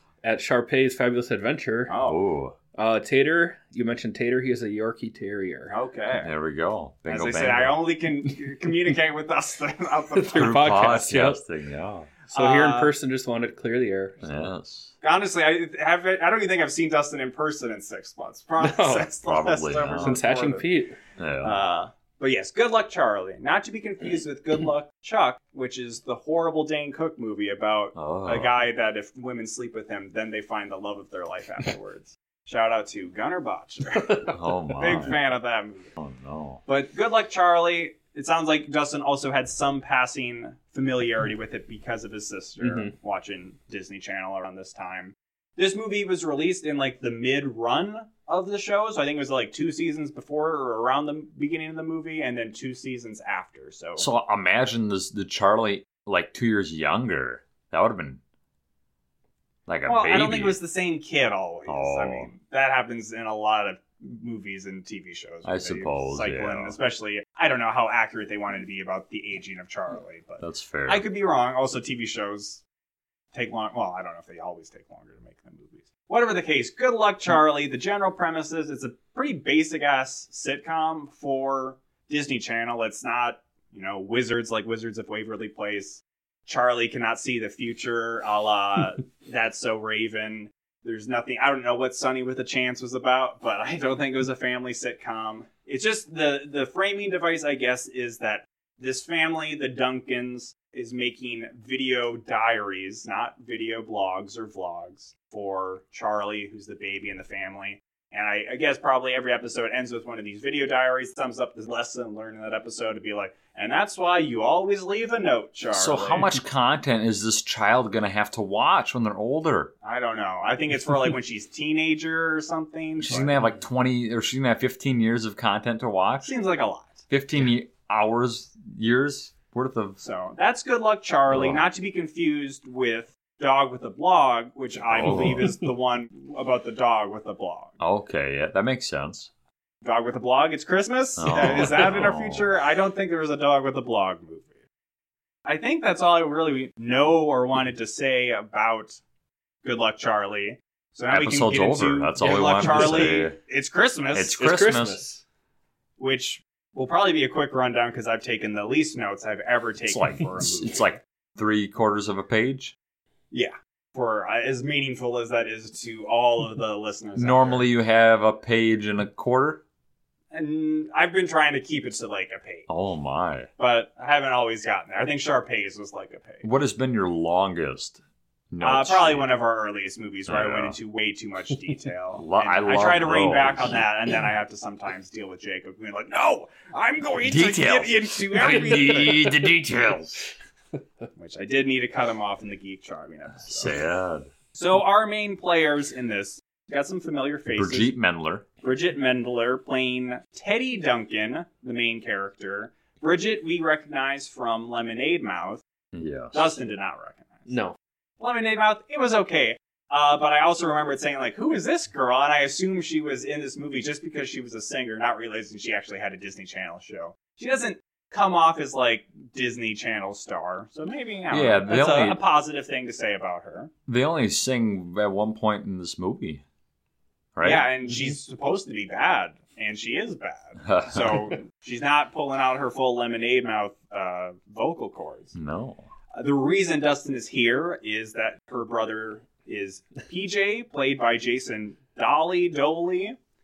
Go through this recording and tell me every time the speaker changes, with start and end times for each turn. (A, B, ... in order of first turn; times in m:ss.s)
0:00.2-0:02.0 A
0:01.9-0:02.2 B
0:02.0-0:02.6 C
0:02.7-0:05.7 A
0:05.7-0:06.3 B
0:06.2-0:07.8 C
0:07.1-0:10.6 B
0:10.1-0:11.4 A
0:10.3-0:12.1 C
0:12.2-0:14.5 A
0:12.3-0:12.9 B
0:14.2-0:14.9 C
0:15.0-0:20.7 B
0:18.6-0:19.1 A
0:19.2-0:20.2 C
0:20.0-0:21.0 A
0:21.2-0:21.6 C
0:21.4-0:35.9 B
0:27.9-0:28.6 C
0:34.0-0:34.3 A
0:34.3-0:35.2 C
0:36.0-0:36.6 C
0:36.6-0:54.1 B
0:42.6-0:42.9 A
0:54.0-0:58.2 C
0:59.7-1:00.6 C
0:59.8-1:12.6 B
1:01.6-1:02.3 C
1:05.4-1:06.8 C
1:10.4-1:11.0 C
1:13.3-1:56.4 B
1:55.7-1:59.7 C
1:59.8-2:03.4 B
2:03.0-2:06.3 C
2:06.2-2:07.0 B
2:07.1-2:10.0 C
2:10.0-2:17.7 B
2:11.3-2:11.6 C
2:14.9-2:15.5 C
2:17.8-2:19.3 C
2:19.8-2:24.5 B
2:21.2-2:22.5 C
2:25.4-2:29.0 B
2:29.6-2:34.3 B
2:31.1-2:33.4 C
2:34.1-2:35.0 C
2:34.4-2:35.2 A
2:36.0-2:40.9 B
2:39.9-2:42.7 C
2:43.3-2:47.7 B
2:47.2-2:49.6 C
2:50.3-2:52.7 B
2:52.7-2:53.5 C
2:53.6-2:56.4 B
2:56.4-2:59.3 C
2:58.6-3:09.3 B
3:00.2-3:00.8 C
3:02.1-3:03.8 C
3:07.2-3:10.3 C
3:11.2-3:13.7 B
3:13.4-3:14.3 C
3:14.5-3:17.9 B
3:17.5-3:18.5 C
3:18.6-3:25.6 B
3:25.9-3:26.6 C
3:26.3-3:27.5 B
3:27.5-3:27.8 A
3:28.2-3:43.7 B
3:41.3-3:42.2 C
3:43.9-3:46.4 C
3:47.3-3:47.7 C
3:47.4-3:55.3 B
3:50.6-3:51.4 C
3:55.3-3:55.9 C
3:56.1-4:03.2 B